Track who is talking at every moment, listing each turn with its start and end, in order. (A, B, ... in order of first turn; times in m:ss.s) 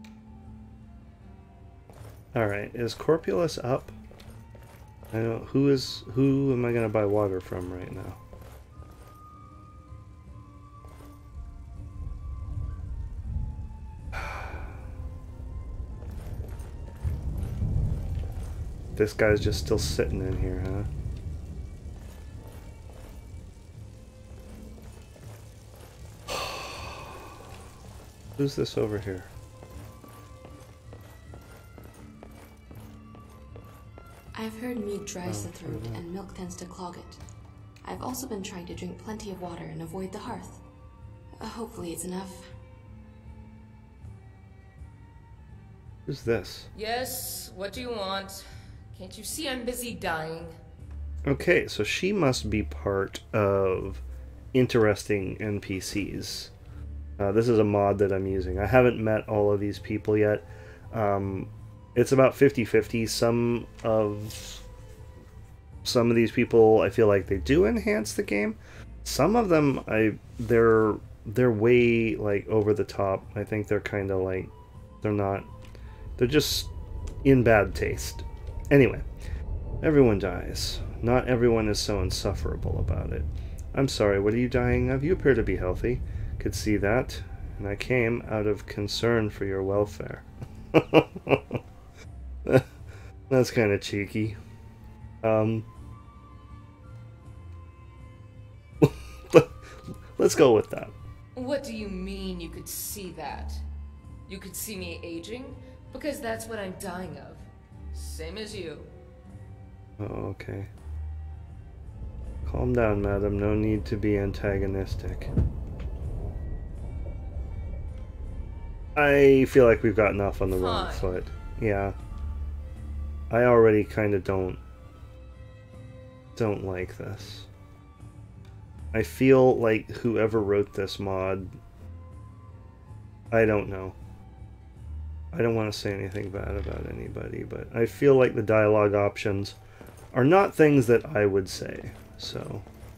0:02.3-0:03.9 A
0:05.1-0:08.2 A
0:19.0-0:20.9 A
0:28.4-0:29.3 A
0:34.3-0:37.2 B
0:35.2-0:36.1 A
0:37.8-0:40.6 B
0:41.4-0:42.5 B
0:46.1-0:46.7 A
0:46.7-0:50.6 C
0:51.2-0:54.0 A
0:54.5-0:56.5 A
0:57.2-1:04.6 A
1:05.8-1:15.5 A
1:16.2-1:16.7 A
1:17.2-1:19.0 A
1:19.8-1:31.6 A
1:33.3-1:34.4 A
1:35.2-1:35.7 A
1:38.8-1:39.6 A
1:40.2-1:41.0 A
1:41.4-1:43.6 C
1:44.3-1:48.9 C
1:50.0-1:50.7 A
1:52.4-1:55.3 A
1:59.0-2:02.0 A
2:00.6-2:01.2 C
2:03.3-2:04.6 A
2:06.4-2:07.5 A
2:08.9-2:11.6 A
2:13.3-2:14.0 A
2:15.3-2:19.6 A
2:20.1-2:22.7 A